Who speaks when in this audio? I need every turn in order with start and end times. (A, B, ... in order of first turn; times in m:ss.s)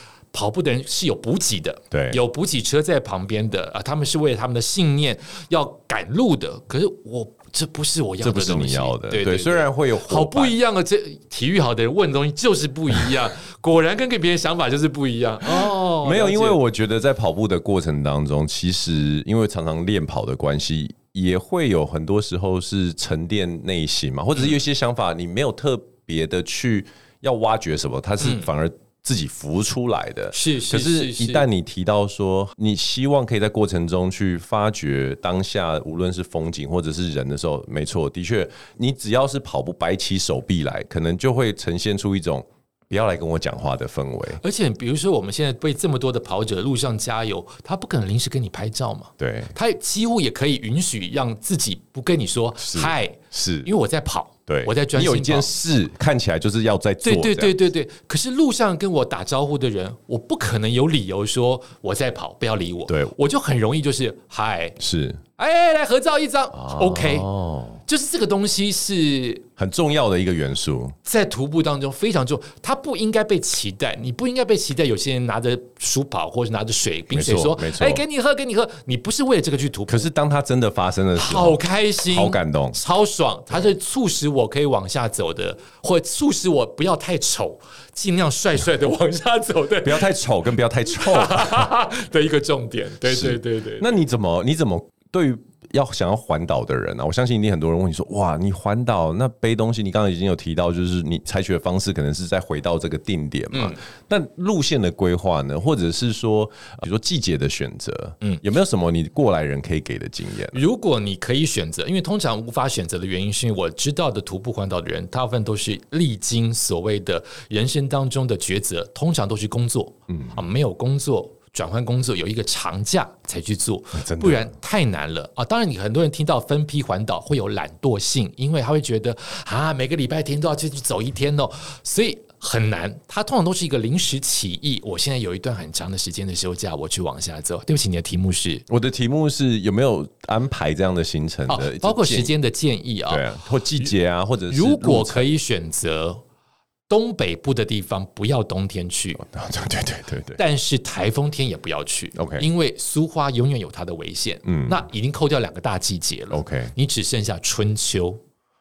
0:00.3-0:16.6 A
0:01.9-0:02.2 B
0:08.2-0:10.6 B
0:15.4-0:44.4 B
0:28.2-0:28.5 A
0:30.3-0:31.5 A
0:44.4-0:55.5 A
0:49.2-0:49.5 B
0:52.6-0:53.7 B
0:54.5-0:57.6 B
0:57.0-1:04.8 A
1:02.9-1:03.1 B
1:04.8-1:05.2 B
1:05.4-1:07.3 A
1:06.5-1:07.8 B
1:07.9-1:09.5 A
1:09.6-1:11.0 B
1:11.0-1:20.1 A
1:17.1-1:18.0 B
1:19.9-1:22.8 B
1:21.2-1:30.1 A
1:29.8-1:31.7 B
1:30.9-1:33.9 A
1:33.1-1:50.6 B
1:43.5-1:43.8 A
1:50.5-2:18.6 A
2:00.1-2:00.4 B
2:04.0-2:04.5 B
2:18.7-2:22.3 B
2:21.5-2:23.3 A
2:23.1-2:25.3 B
2:24.5-2:26.2 A
2:26.9-2:29.2 A
2:29.2-2:30.4 B
2:30.4-2:38.2 A
2:32.2-2:32.5 B
2:34.4-2:34.8 B
2:36.3-2:36.7 B